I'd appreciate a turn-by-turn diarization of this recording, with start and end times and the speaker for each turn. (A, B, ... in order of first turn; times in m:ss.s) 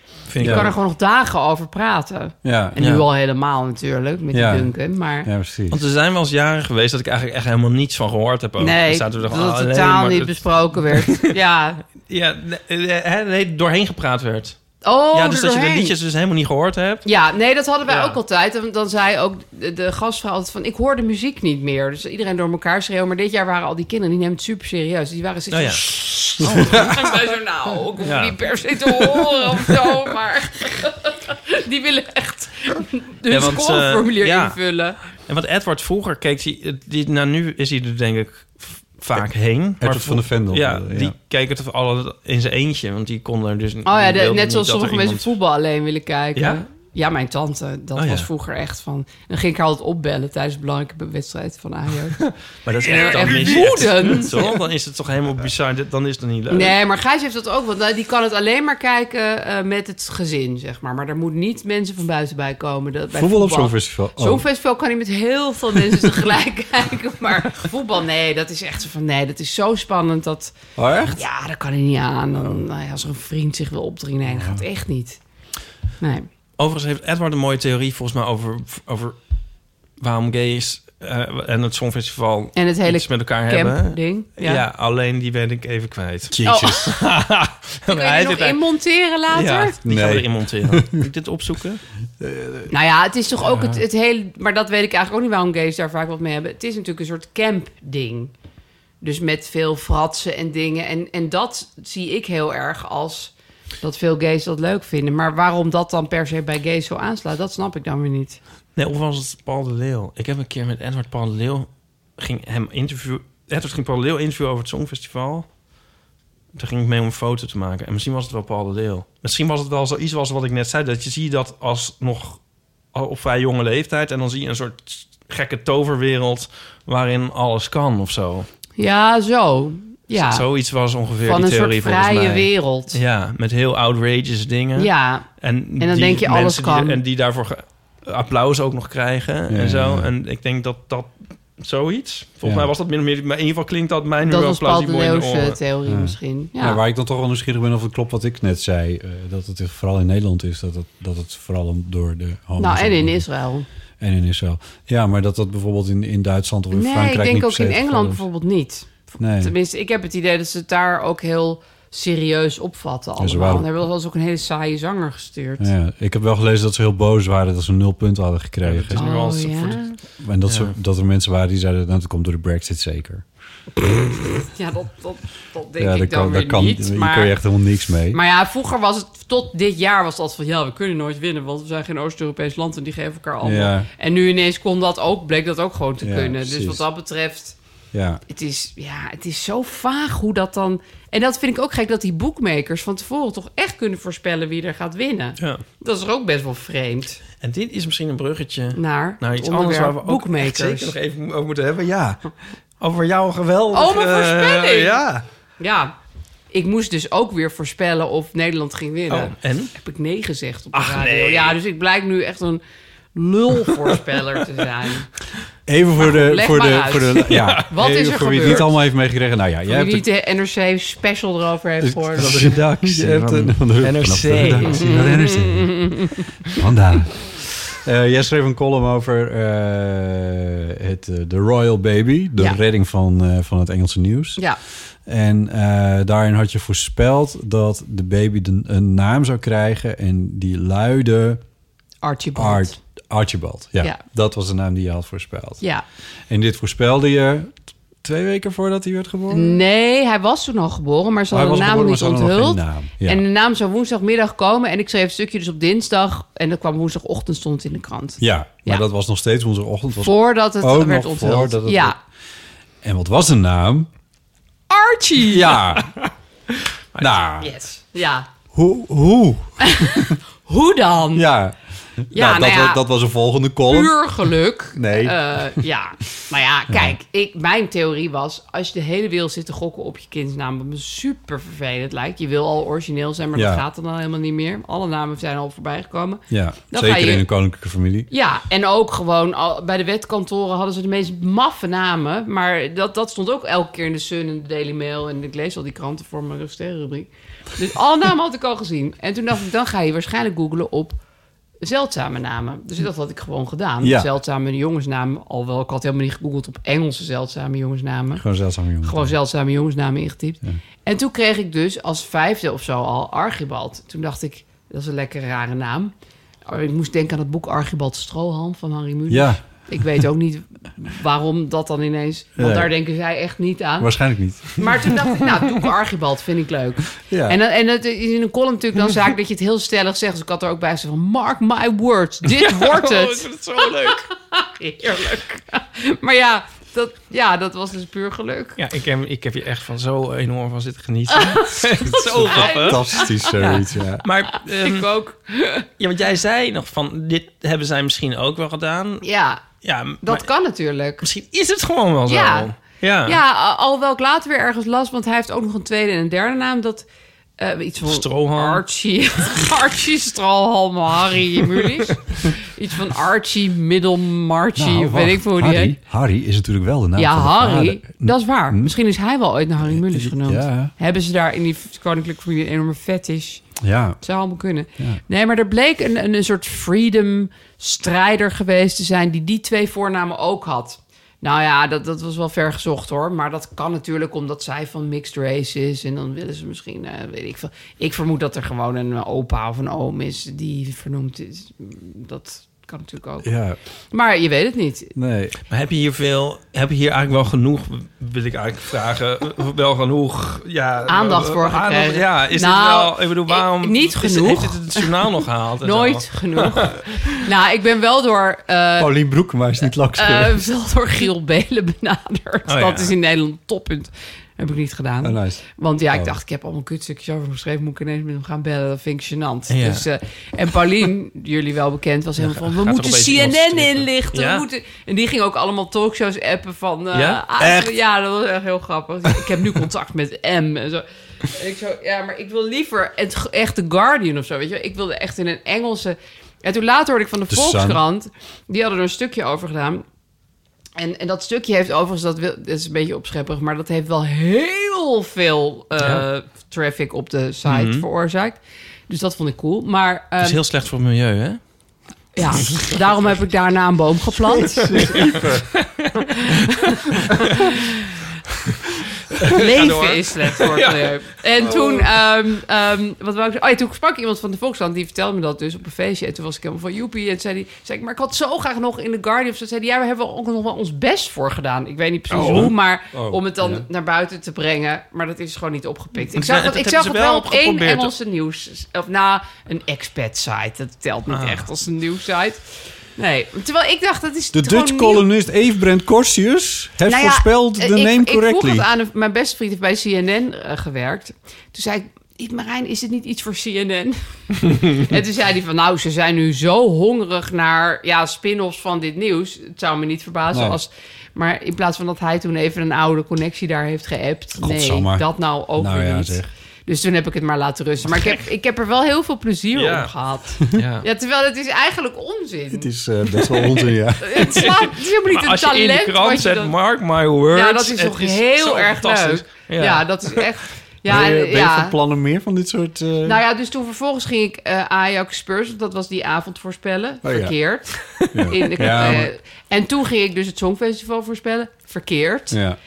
0:00.3-0:00.7 A
0:00.4-0:00.7 B
0:00.4-0:05.3 C
0:02.4-0:02.8 B
0:02.8-0:03.0 A
0:04.3-0:04.7 B
0:05.2-0:05.8 B
0:05.7-0:11.3 A
0:08.6-0:11.8 C
0:12.1-0:14.6 A
0:14.8-0:15.9 C
0:15.1-0:17.0 A
0:17.0-0:35.0 C
0:17.9-0:18.2 A
0:25.5-0:25.8 A
0:26.4-0:27.0 A
0:26.4-0:27.0 B
0:28.0-0:29.4 A
0:33.3-0:34.6 A
0:35.1-0:45.3 A
0:39.8-0:41.1 B
0:43.8-0:52.2 C
0:46.4-0:46.6 A
0:48.0-0:48.3 A
0:52.2-0:56.8 A
0:52.8-0:54.4 C
0:56.5-1:10.5 C
1:03.1-1:04.4 B
1:10.8-1:11.2 B
1:11.1-1:15.2 C
1:14.3-1:14.6 B
1:16.0-1:16.3 C
1:16.6-1:19.2 A
1:20.0-1:28.6 A
1:22.5-1:24.6 C
1:26.3-1:26.9 B
1:26.4-1:26.9 C
1:27.9-1:29.8 C
1:29.3-1:31.8 A
1:29.8-1:31.0 B
1:32.2-1:32.7 B
1:32.7-1:38.3 C
1:33.5-1:33.8 A
1:39.0-1:48.4 C
1:48.8-1:55.5 A
1:56.5-2:02.4 A
2:02.9-2:08.5 A
2:08.8-2:10.4 C
2:10.1-2:25.6 A
2:11.2-2:13.0 C
2:14.8-2:15.2 C
2:15.8-2:17.0 C
2:19.5-2:20.1 B
2:22.4-2:22.7 B
2:24.2-2:26.8 C
2:25.8-2:33.2 B
2:32.6-2:33.7 C
2:34.0-2:38.2 B
2:36.7-2:45.7 C
2:39.2-2:39.5 B
2:43.2-2:43.7 B
2:45.6-2:49.0 B
2:48.6-2:49.8 A
2:48.9-2:50.0 C
2:50.2-2:53.2 B
2:50.4-2:50.7 A
2:53.8-2:57.3 C
2:55.8-2:58.2 B
2:58.1-3:07.5 C
3:03.4-3:03.9 B
3:06.0-3:06.8 B
3:07.9-3:08.2 B
3:08.3-3:17.2 C
3:17.4-3:25.2 A
3:18.7-3:20.9 C
3:23.7-3:25.0 C
3:25.6-3:25.9 C
3:26.5-3:32.6 C
3:29.1-3:29.7 A
3:30.7-3:31.6 A
3:33.1-3:35.1 C
3:35.7-3:40.0 B
3:36.0-3:38.7 C
3:37.3-3:37.7 A
3:39.7-3:42.5 C
3:41.8-3:54.4 B
3:42.2-3:44.8 A
3:44.6-3:46.2 C
3:55.0-4:01.4 B
4:02.0-4:02.8 C
4:02.3-4:05.6 B
4:06.3-4:09.6 B
4:09.3-4:18.8 C
4:11.3-4:13.2 B
4:18.2-4:22.0 B
4:20.0-4:22.0 C
4:22.8-4:23.9 B
4:24.7-4:25.6 C
4:25.3-4:25.9 B
4:27.0-4:27.5 B
4:27.4-4:28.3 C
4:28.5-4:30.2 B
4:29.6-4:31.3 C
4:31.1-4:34.0 B
4:32.1-4:32.8 C
4:33.7-4:47.2 C
4:34.7-4:35.6 B
4:36.7-4:37.0 B
4:43.3-4:43.6 B
4:46.3-4:48.1 B
4:48.1-5:01.0 C
5:01.6-5:08.2 C
5:03.8-5:04.1 B
5:08.2-5:09.1 B
5:08.8-5:15.9 C
5:16.4-5:23.9 C
5:19.1-5:19.4 B
5:22.4-5:22.7 B
5:23.8-5:24.6 B
5:24.5-5:33.2 C
5:27.1-5:27.4 B
5:32.3-5:34.0 A
5:33.8-5:38.6 C
5:38.6-5:44.9 A
5:41.1-5:43.4 C
5:41.9-5:44.0 B
5:44.6-5:45.6 C
5:45.8-5:49.0 A
5:49.0-5:49.4 C
5:49.6-5:50.2 A
5:50.0-5:51.0 C
5:51.0-5:53.2 A
5:52.1-5:52.5 C
5:53.0-5:56.8 C
5:57.4-6:05.8 C
5:57.8-5:58.6 A
6:04.6-6:08.7 B
6:07.0-6:13.4 C
6:09.7-6:10.7 B
6:13.6-6:14.0 B
6:14.0-6:33.3 C
6:33.2-6:33.6 B
6:33.9-6:34.9 C
6:34.9-6:35.3 B
6:35.5-6:46.9 A
6:40.9-6:44.9 C
6:45.6-6:48.9 C
6:48.8-6:50.5 B
6:49.9-7:19.8 C
6:52.5-6:52.9 A
6:55.0-6:55.4 B
6:59.5-6:59.8 A
7:02.2-7:04.4 A
7:06.9-7:07.4 A
7:17.3-7:17.8 B
7:20.8-7:30.4 C
7:25.8-7:26.0 A
7:27.5-7:27.8 A
7:30.2-7:31.4 A
7:32.2-7:35.0 C
7:34.5-7:35.6 B
7:34.7-7:35.9 A
7:36.2-7:37.7 C
7:39.2-7:41.6 A
7:39.3-8:02.4 C
7:41.4-7:41.7 B
7:52.1-7:52.5 A
7:52.2-7:53.6 B
7:56.1-7:57.9 A
8:01.1-8:01.5 A
8:03.0-8:05.0 C
8:04.3-8:08.7 B
8:06.8-8:32.7 C
8:20.3-8:20.6 B
8:24.4-8:26.3 B
8:29.5-8:29.9 A
8:30.5-8:30.8 A
8:32.5-8:34.3 B
8:34.0-8:36.5 C
8:34.3-8:40.2 A
8:37.3-8:41.8 C
8:40.8-8:43.2 B
8:43.0-8:52.4 C
8:47.0-8:47.3 B
8:48.1-8:49.1 B
8:48.6-8:49.0 A
8:52.3-8:52.6 B